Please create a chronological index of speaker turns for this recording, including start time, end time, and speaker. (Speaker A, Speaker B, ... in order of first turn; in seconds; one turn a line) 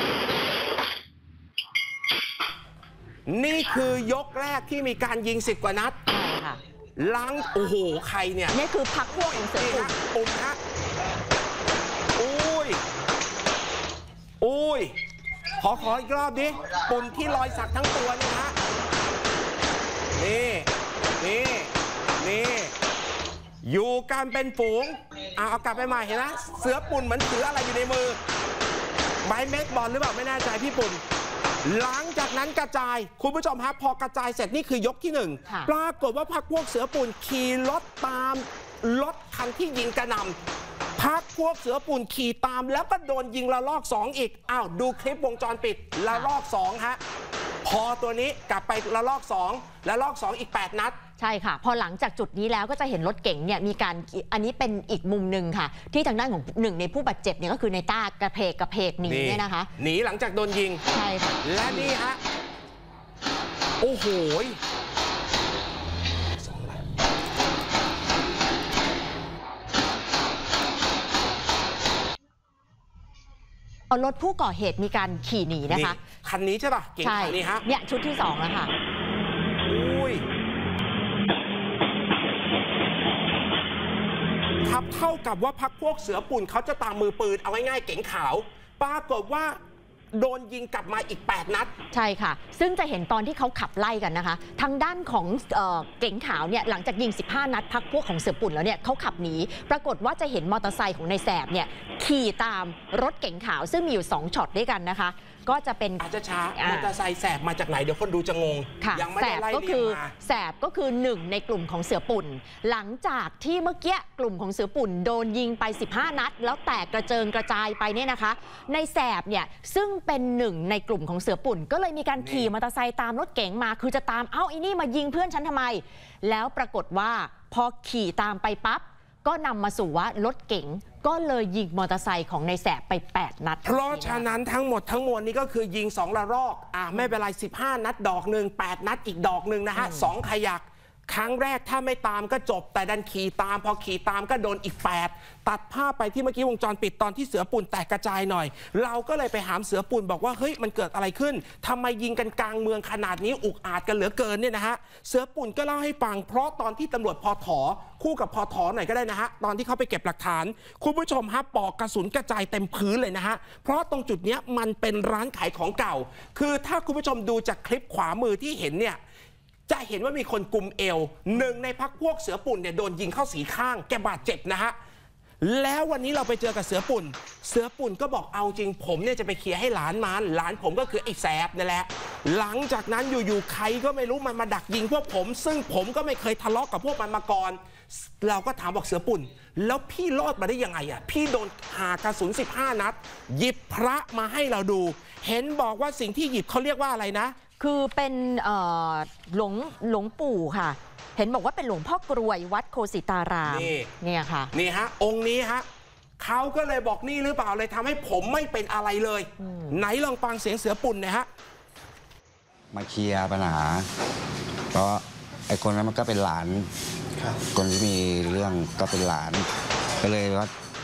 Speaker A: 3.3-6.0
Speaker B: 6.1-6.6
Speaker A: 7.0-8.6
Speaker B: 8.5-9.9
Speaker A: 9.1-10.6
Speaker A: 12.2-12.8
Speaker A: 14.4-14.9
Speaker A: 15.6-18.5
Speaker A: 20.2-20.7
Speaker A: 21.2-22.7
Speaker A: 23.6-28.2
Speaker A: 29.2-31.0
Speaker A: 31.6-40.4
Speaker A: 41.0-47.0
Speaker A: 47.6-51.0
Speaker B: 51.2-59.7
Speaker A: 59.0-60.8
Speaker B: 60.9-61.9
Speaker A: 61.4-62.2
Speaker A: 63.8-64.6
Speaker A: 66.4-66.8
Speaker B: 73.9-76.0
Speaker A: 75.7-77.6
Speaker B: 77.0-78.7
Speaker A: 79.7-80.2
Speaker A: 84.6-89.6
Speaker A: 90.1-91.7
Speaker B: 91.9-106.0
Speaker A: 106.0-110.1
Speaker B: 106.5-106.9
Speaker B: 108.8-134.3
Speaker A: 122.2-122.5
Speaker A: 133.6-169.0
Speaker B: 139.8-140.1
Speaker A: 169.7-174.7
Speaker A: 175.4-197.3
Speaker B: 197.6-204.5
Speaker A: 203.4-203.9
Speaker A: 204.5-205.6
Speaker A: 206.2-211.3
Speaker B: 209.4-209.8
Speaker C: 212.7-213.9
Speaker C: 214.7-216.7
Speaker C: 217.5-219.5
Speaker C: 220.0-220.5